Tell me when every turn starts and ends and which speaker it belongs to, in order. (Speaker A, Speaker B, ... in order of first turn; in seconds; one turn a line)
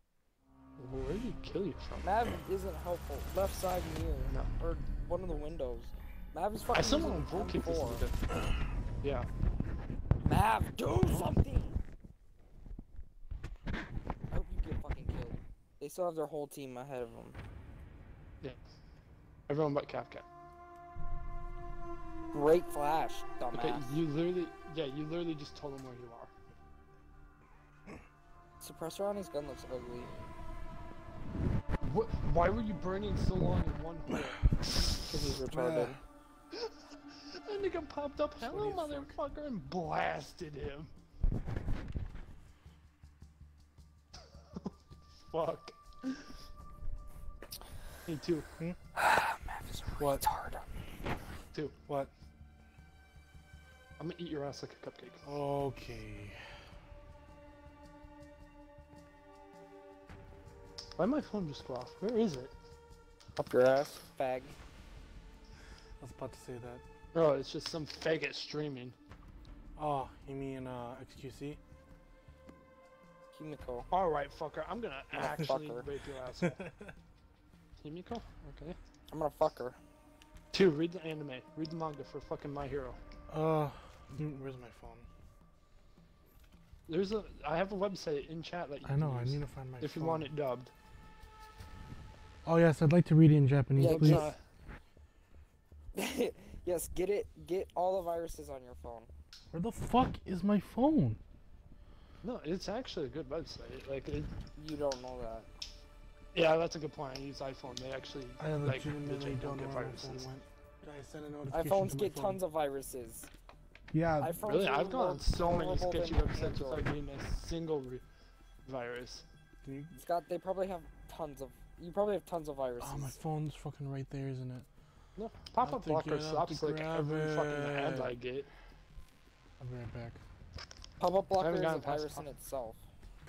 Speaker A: 0.8-2.1
Speaker B: 2.0-8.1
Speaker A: 6.7-8.2
Speaker B: 10.2-11.8
Speaker B: 14.3-17.4
Speaker A: 19.5-20.2
Speaker B: 22.3-23.8
Speaker A: 23.5-26.3
Speaker B: 28.6-30.1
Speaker A: 31.8-34.4
Speaker B: 35.1-36.0
Speaker C: 35.5-36.0
Speaker A: 36.5-36.8
Speaker A: 37.5-40.9
Speaker C: 38.4-39.2
Speaker A: 45.3-46.3
Speaker A: 48.1-48.5
Speaker B: 49.0-50.6
Speaker C: 50.0-50.3
Speaker A: 54.0-55.2
Speaker C: 55.2-56.4
Speaker A: 61.0-62.5
Speaker B: 63.4-64.6
Speaker C: 66.0-66.8
Speaker A: 67.1-69.0
Speaker C: 69.8-71.6
Speaker B: 73.3-73.9
Speaker A: 73.9-76.6
Speaker B: 75.2-75.8
Speaker C: 76.3-77.0
Speaker A: 77.8-78.8
Speaker B: 79.1-79.8
Speaker A: 80.5-83.0
Speaker C: 83.3-85.1
Speaker A: 86.9-90.7
Speaker C: 88.8-90.3
Speaker C: 92.5-94.3
Speaker B: 93.8-94.3
Speaker A: 93.8-94.4
Speaker B: 96.0-99.1
Speaker C: 99.5-101.2
Speaker A: 102.2-104.3
Speaker B: 104.6-105.5
Speaker A: 106.3-110.3
Speaker C: 108.4-112.4
Speaker B: 111.5-113.3
Speaker C: 113.9-114.4
Speaker B: 114.2-116.9
Speaker A: 114.4-118.0
Speaker A: 118.7-119.2
Speaker C: 119.6-120.0
Speaker B: 120.0-123.2
Speaker C: 122.8-124.7
Speaker A: 125.2-128.5
Speaker C: 125.6-128.1
Speaker C: 129.6-130.2
Speaker B: 131.0-132.8
Speaker A: 131.4-132.3